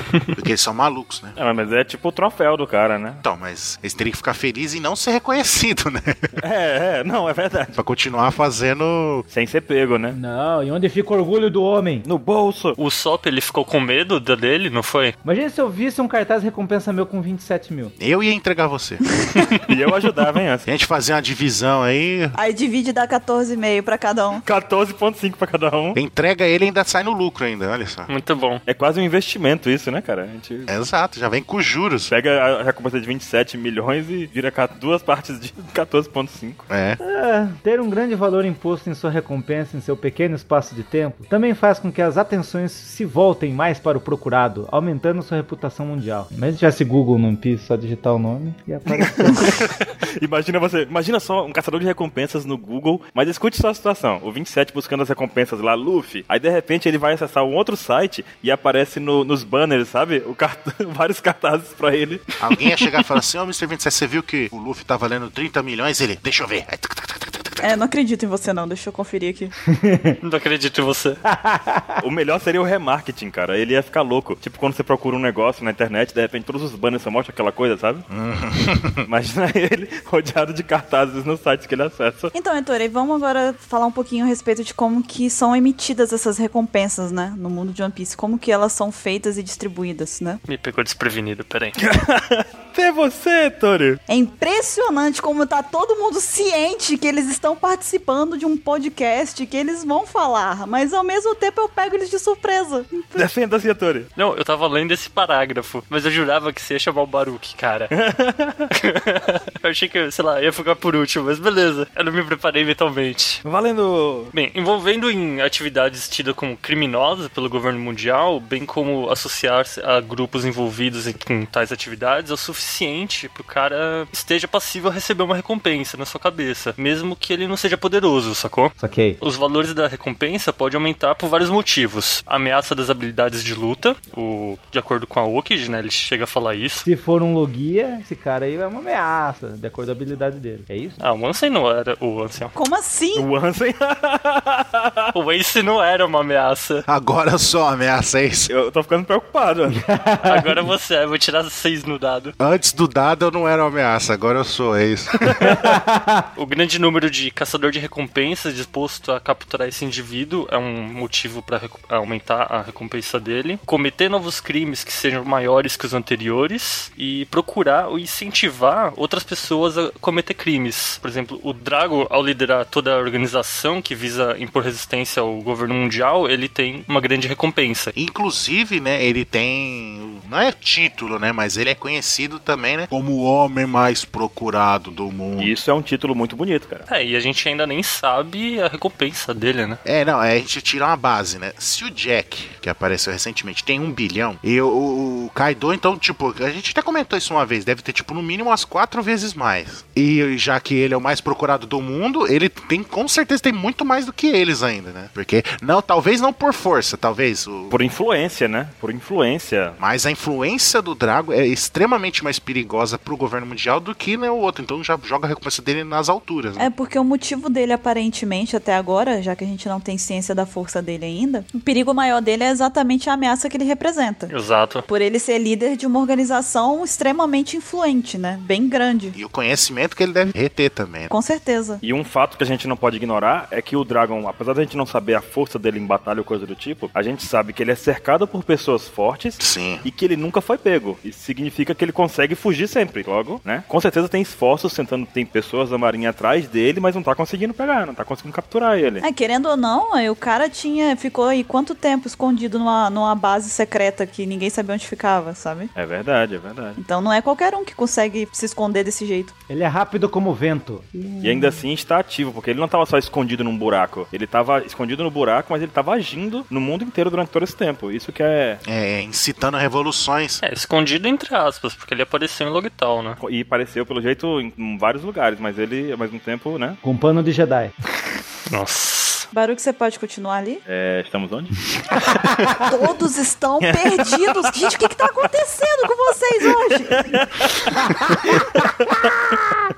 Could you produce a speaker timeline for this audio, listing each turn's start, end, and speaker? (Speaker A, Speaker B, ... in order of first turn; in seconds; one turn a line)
Speaker A: 0.4-1.4
Speaker B: 1.4-3.2
Speaker A: 3.2-6.3
Speaker B: 6.4-7.8
Speaker A: 7.8-9.2
Speaker B: 9.3-10.2
Speaker C: 10.1-12.1
Speaker B: 12.1-12.8
Speaker D: 12.8-15.2
Speaker C: 15.2-17.9
Speaker A: 18.0-19.0
Speaker B: 19.7-20.7
Speaker A: 20.7-22.4
Speaker E: 22.4-24.4
Speaker B: 24.4-26.0
Speaker A: 25.9-28.1
Speaker D: 28.1-28.6
Speaker B: 28.7-30.7
Speaker A: 30.7-32.1
Speaker B: 32.1-36.6
Speaker A: 36.7-37.0
Speaker C: 37.0-49.6
Speaker B: 49.0-62.2
Speaker A: 62.4-67.8
Speaker E: 67.6-69.5
Speaker C: 69.7-70.2
Speaker D: 70.2-71.2
Speaker C: 71.3-72.0
Speaker B: 72.0-78.0
Speaker A: 78.1-79.0
Speaker B: 79.0-82.3
Speaker E: 82.3-90.4
Speaker D: 90.5-91.8
Speaker B: 91.8-94.0
Speaker E: 94.1-103.3
Speaker B: 103.2-104.1
Speaker D: 104.2-107.9
Speaker B: 107.9-108.7
Speaker D: 108.7-113.4
Speaker B: 113.4-114.3
Speaker D: 114.3-136.9
Speaker C: 128.8-129.2
Speaker C: 136.8-141.0
Speaker D: 141.0-142.5
Speaker E: 142.5-143.3
Speaker B: 143.2-145.1
Speaker D: 145.1-146.8
Speaker A: 146.9-148.5
Speaker B: 148.5-149.8
Speaker C: 149.7-150.7
Speaker D: 150.3-152.3
Speaker A: 152.4-155.5
Speaker C: 155.4-156.3
Speaker D: 156.4-177.9
Speaker A: 178.0-185.5
Speaker B: 185.4-186.9
Speaker D: 186.9-189.8
Speaker A: 189.8-207.7
Speaker B: 207.7-209.8
Speaker A: 209.8-216.7
Speaker E: 216.6-224.3
Speaker D: 224.3-224.8
Speaker E: 224.9-229.2
Speaker A: 229.2-231.1
Speaker E: 231.1-231.8
Speaker B: 231.8-249.0
Speaker A: 239.4-239.8
Speaker E: 249.0-255.7
Speaker B: 255.8-256.8
Speaker E: 256.8-259.3
Speaker C: 259.5-261.6
Speaker B: 261.2-268.6
Speaker A: 268.6-270.4
Speaker D: 270.4-273.2
Speaker B: 273.2-276.8
Speaker C: 276.8-277.7
Speaker D: 278.5-279.3
Speaker E: 279.3-280.6
Speaker B: 280.7-281.6
Speaker C: 281.9-282.6
Speaker E: 282.7-287.2
Speaker B: 283.6-284.7
Speaker B: 286.4-289.4
Speaker C: 287.8-288.7